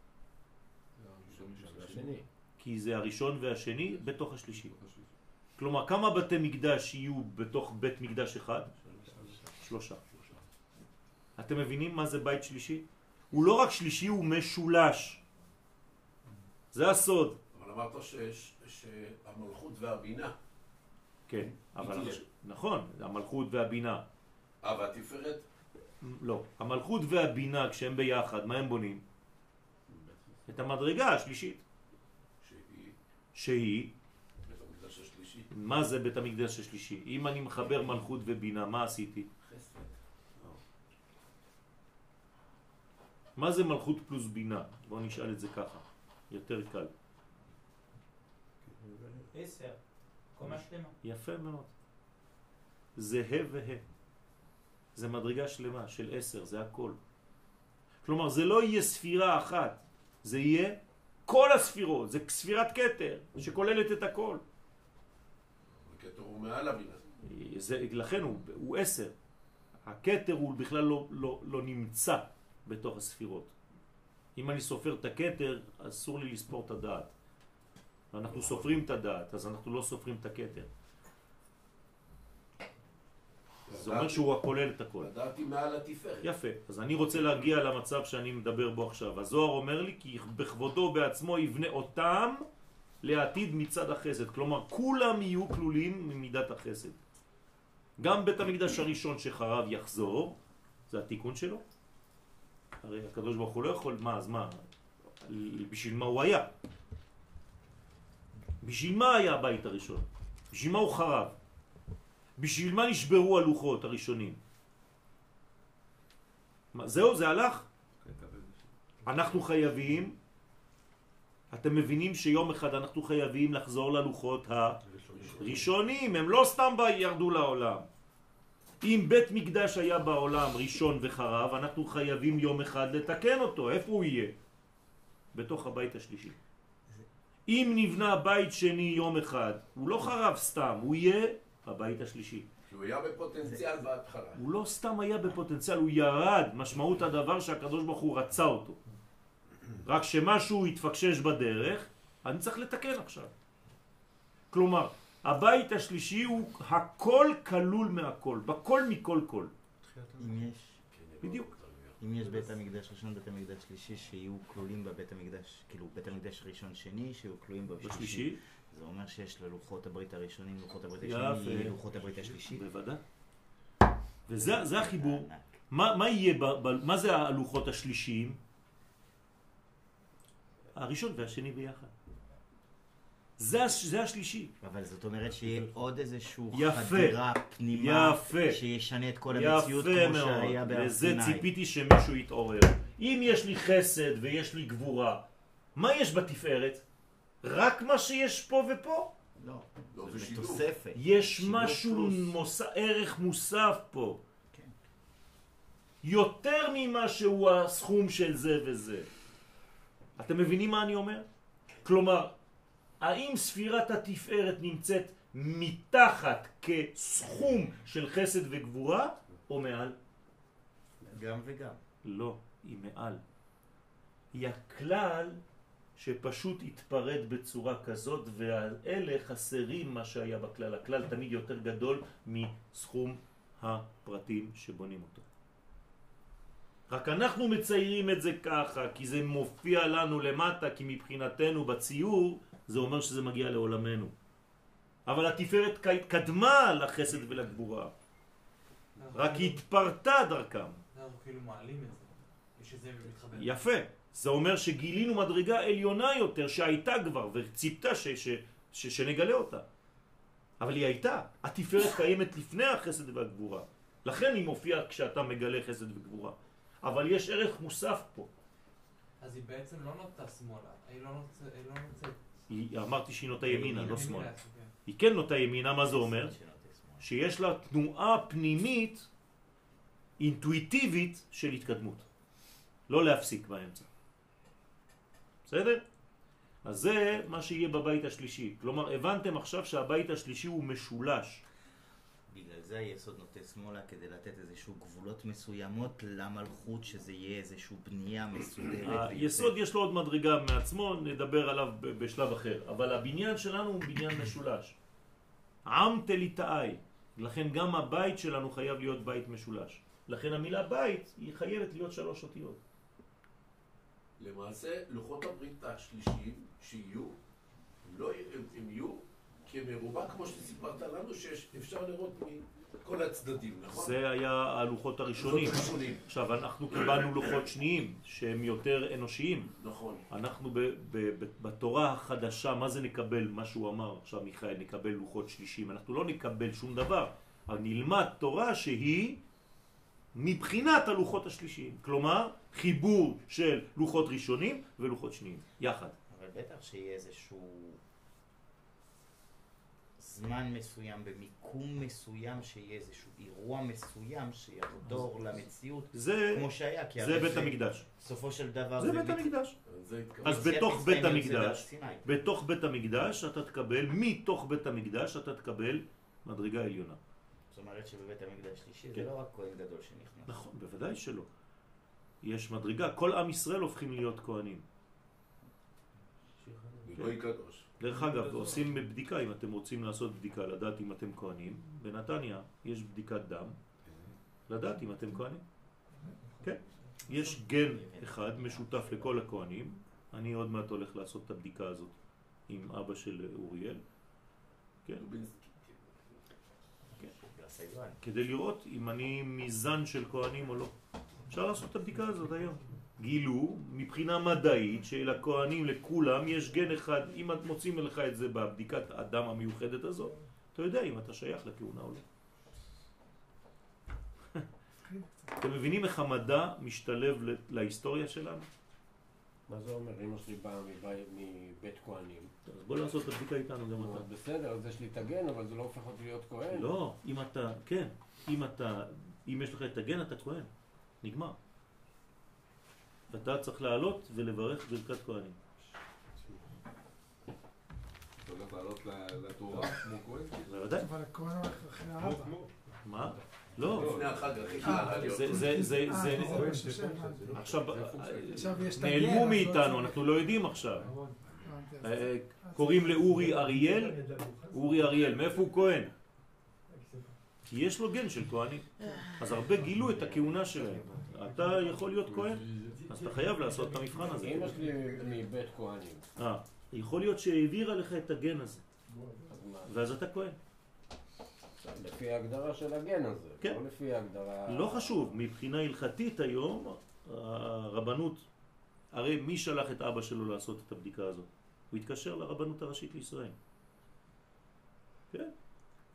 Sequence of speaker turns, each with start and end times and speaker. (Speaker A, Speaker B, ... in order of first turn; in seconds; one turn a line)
Speaker A: 1.0-2.2
Speaker B: 1.2-2.0
Speaker C: 1.4-2.1
Speaker D: 2.6-4.7
Speaker C: 3.9-5.1
Speaker D: 5.6-8.7
Speaker C: 8.9-9.4
Speaker D: 9.6-10.0
Speaker D: 11.4-15.2
Speaker D: 16.7-17.4
Speaker B: 17.5-20.4
Speaker D: 21.3-24.0
Speaker B: 21.8-22.2
Speaker B: 24.6-25.4
Speaker D: 26.0-29.0
Speaker A: 29.9-30.5
Speaker D: 30.5-31.6
Speaker B: 32.4-33.0
Speaker D: 33.3-33.9
Speaker B: 34.4-35.5
Speaker D: 35.5-39.3
Speaker B: 39.5-39.8
Speaker D: 43.4-46.9
Speaker E: 49.3-49.8
Speaker E: 50.4-50.9
Speaker D: 51.0-51.7
Speaker D: 53.0-53.8
Speaker D: 54.9-57.0
Speaker D: 58.0-64.4
Speaker B: 65.7-67.0
Speaker D: 67.2-69.1
Speaker D: 69.8-73.5
Speaker D: 74.3-77.1
Speaker D: 78.1-80.7
Speaker B: 78.2-78.8
Speaker B: 83.7-84.3
Speaker D: 83.7-85.1
Speaker B: 85.0-86.3
Speaker D: 86.2-92.4
Speaker D: 93.0-97.0
Speaker D: 98.0-101.6
Speaker D: 102.8-104.6
Speaker D: 105.2-106.5
Speaker D: 108.6-111.3
Speaker D: 112.4-114.4
Speaker D: 116.7-117.7
Speaker C: 118.0-118.6
Speaker D: 119.0-120.2
Speaker D: 121.5-127.9
Speaker B: 125.0-125.7
Speaker D: 128.8-134.3
Speaker D: 135.3-136.3
Speaker D: 137.5-142.5
Speaker B: 142.7-144.4
Speaker D: 144.3-148.8
Speaker D: 149.8-153.3
Speaker D: 154.5-159.5
Speaker E: 160.2-160.8
Speaker B: 160.9-162.0
Speaker D: 161.2-161.5
Speaker E: 162.0-172.6
Speaker D: 167.8-168.4
Speaker D: 171.0-173.0
Speaker D: 174.3-178.4
Speaker E: 174.3-175.6
Speaker D: 180.7-181.9
Speaker D: 183.4-184.5
Speaker E: 184.6-191.5
Speaker D: 186.5-188.6
Speaker D: 189.2-196.8
Speaker D: 197.4-199.1
Speaker E: 199.4-201.2
Speaker B: 199.9-200.6
Speaker D: 200.9-204.2
Speaker B: 201.6-202.3
Speaker D: 206.0-209.1
Speaker D: 210.2-211.2
Speaker D: 211.8-212.3
Speaker D: 213.0-219.9
Speaker E: 221.1-221.8
Speaker D: 222.0-223.2
Speaker D: 224.3-225.4
Speaker D: 226.0-235.2
Speaker D: 236.9-244.1
Speaker D: 245.1-247.9
Speaker F: 249.0-249.6
Speaker D: 249.1-250.8
Speaker F: 250.9-253.6
Speaker D: 253.3-259.6
Speaker D: 260.6-268.3
Speaker F: 269.2-272.2
Speaker D: 272.5-274.3
Speaker E: 273.4-274.2
Speaker F: 273.6-274.7
Speaker D: 274.9-276.3
Speaker E: 275.8-277.1
Speaker D: 277.0-279.1
Speaker D: 280.2-282.1
Speaker D: 282.9-283.9
Speaker D: 285.4-285.8
Speaker D: 286.6-291.4
Speaker E: 292.3-299.6
Speaker D: 298.8-304.7
Speaker D: 305.6-312.6
Speaker B: 314.2-317.2
Speaker B: 317.8-324.0
Speaker D: 323.7-329.5
Speaker B: 325.2-326.0
Speaker B: 329.5-330.1
Speaker D: 330.1-339.2
Speaker D: 340.1-345.9
Speaker E: 346.1-347.8
Speaker E: 350.0-359.4
Speaker D: 355.9-357.9
Speaker D: 358.8-359.6
Speaker B: 359.6-360.5
Speaker E: 360.2-362.3
Speaker D: 360.2-367.0
Speaker E: 367.5-370.4
Speaker D: 370.3-371.3
Speaker D: 372.2-374.6
Speaker A: 376.4-377.0
Speaker B: 376.8-377.7
Speaker D: 376.9-377.2
Speaker D: 377.7-383.6
Speaker D: 384.5-385.4
Speaker G: 386.0-387.2
Speaker D: 386.4-391.9
Speaker E: 387.6-389.2
Speaker D: 392.5-393.8
Speaker B: 395.0-396.0
Speaker E: 397.0-398.0
Speaker D: 398.0-400.7
Speaker D: 401.3-412.0
Speaker G: 414.9-415.2
Speaker D: 415.4-418.5
Speaker A: 419.5-422.3
Speaker D: 422.4-424.1
Speaker A: 423.7-426.7
Speaker D: 426.5-430.5
Speaker D: 431.0-431.4
Speaker D: 433.1-435.4
Speaker C: 438.2-440.6
Speaker D: 440.4-440.9
Speaker G: 440.8-442.4
Speaker C: 442.0-442.5
Speaker D: 442.8-444.1
Speaker E: 443.6-444.4
Speaker C: 443.7-444.8
Speaker B: 443.8-446.0
Speaker G: 444.6-447.4
Speaker D: 444.6-446.6
Speaker C: 446.2-447.5
Speaker D: 447.3-450.9
Speaker A: 447.7-448.3
Speaker G: 448.3-450.1
Speaker G: 450.8-454.8
Speaker D: 451.8-455.9
Speaker G: 456.7-457.1
Speaker D: 457.5-464.7
Speaker E: 458.8-461.0
Speaker G: 462.6-464.9
Speaker A: 464.1-466.1
Speaker D: 466.2-468.6
Speaker G: 468.9-469.4
Speaker A: 469.2-469.7
Speaker D: 469.6-470.4
Speaker A: 471.6-475.0
Speaker D: 474.4-478.2
Speaker D: 478.9-483.4